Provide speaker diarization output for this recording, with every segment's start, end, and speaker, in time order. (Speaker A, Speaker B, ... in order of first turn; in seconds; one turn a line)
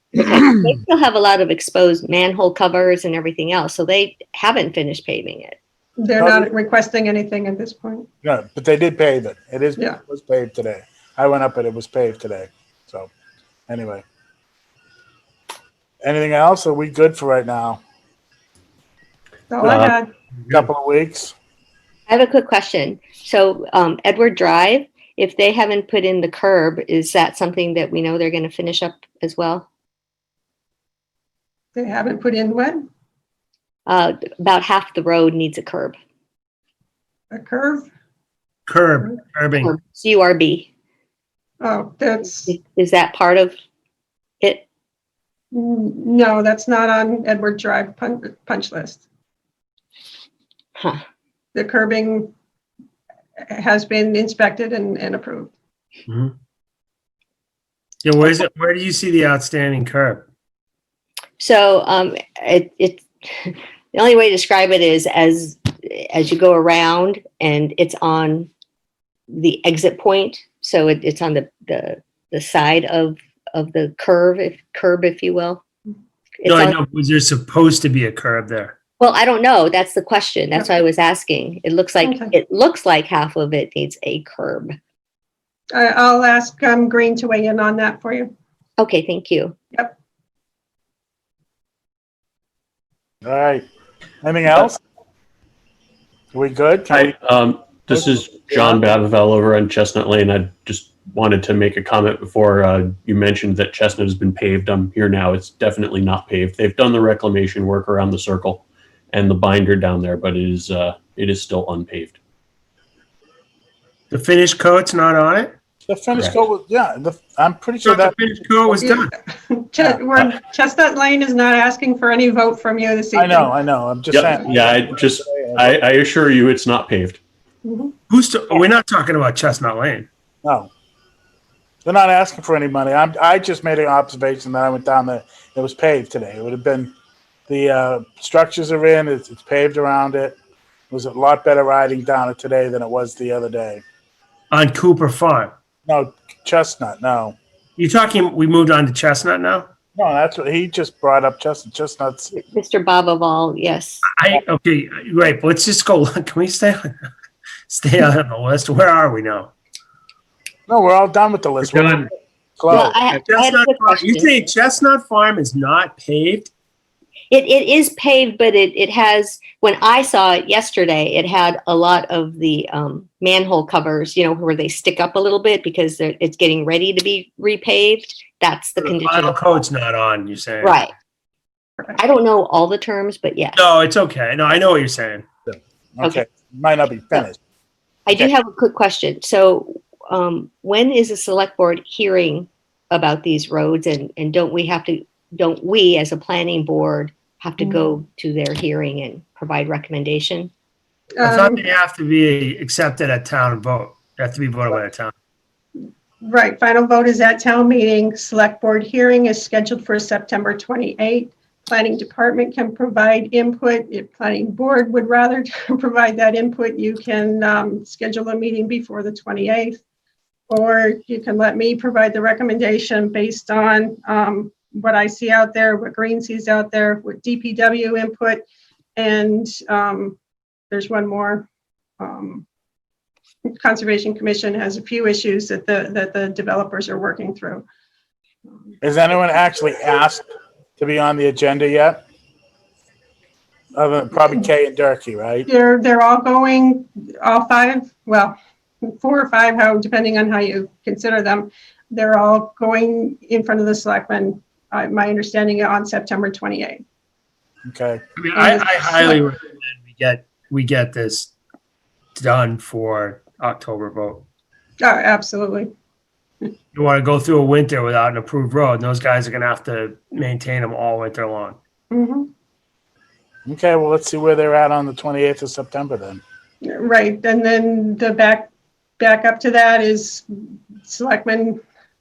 Speaker A: 0.1-5.6
Speaker B: 6.0-8.1
Speaker C: 6.2-6.5
Speaker C: 8.2-13.1
Speaker C: 13.7-14.0
Speaker C: 16.0-17.8
Speaker B: 19.5-20.1
Speaker D: 19.6-19.9
Speaker C: 20.5-21.3
Speaker A: 22.1-29.7
Speaker B: 31.7-32.8
Speaker A: 33.9-35.9
Speaker B: 37.3-37.9
Speaker E: 38.7-39.7
Speaker A: 39.6-40.7
Speaker B: 41.6-42.5
Speaker A: 42.5-43.5
Speaker B: 45.5-49.0
Speaker A: 50.8-51.0
Speaker B: 51.5-52.3
Speaker B: 53.5-55.5
Speaker E: 56.1-56.3
Speaker E: 58.0-60.2
Speaker A: 61.4-68.5
Speaker A: 69.3-75.6
Speaker A: 76.4-76.8
Speaker E: 76.5-78.7
Speaker A: 79.0-84.7
Speaker B: 82.0-82.3
Speaker B: 85.7-88.3
Speaker A: 88.8-89.5
Speaker C: 93.2-93.6
Speaker C: 94.2-94.8
Speaker C: 96.3-97.1
Speaker D: 96.9-112.2
Speaker C: 97.9-98.8
Speaker E: 114.1-115.5
Speaker C: 115.8-118.2
Speaker E: 117.8-119.1
Speaker B: 118.8-123.5
Speaker C: 123.1-125.8
Speaker D: 124.1-127.2
Speaker B: 127.6-127.9
Speaker E: 128.1-130.1
Speaker C: 130.4-130.7
Speaker C: 131.8-136.9
Speaker C: 137.5-140.4
Speaker C: 140.9-143.8
Speaker E: 144.5-145.5
Speaker C: 145.8-147.4
Speaker E: 147.8-149.7
Speaker C: 149.9-152.3
Speaker A: 152.3-154.1
Speaker E: 154.0-156.9
Speaker E: 157.7-159.5
Speaker C: 160.7-163.0
Speaker A: 162.7-164.4
Speaker E: 163.1-166.5
Speaker A: 167.3-179.5
Speaker E: 178.8-180.8
Speaker A: 180.6-180.9
Speaker A: 182.0-183.6
Speaker E: 183.5-185.2
Speaker C: 185.5-187.4
Speaker A: 188.1-200.5
Speaker B: 201.2-201.7
Speaker E: 201.2-205.1
Speaker B: 206.2-219.8
Speaker B: 220.5-228.4
Speaker B: 228.9-230.2
Speaker B: 230.7-231.5
Speaker B: 232.0-232.4
Speaker B: 233.6-237.6
Speaker C: 238.8-242.0
Speaker C: 243.7-245.5
Speaker B: 245.5-248.3
Speaker B: 248.8-256.8
Speaker C: 257.7-258.0
Speaker E: 258.2-261.3
Speaker B: 258.3-259.2
Speaker E: 262.1-264.2
Speaker B: 264.8-265.7
Speaker E: 266.7-271.6
Speaker B: 271.9-272.3
Speaker C: 273.4-276.2
Speaker B: 276.6-280.3
Speaker B: 280.8-281.6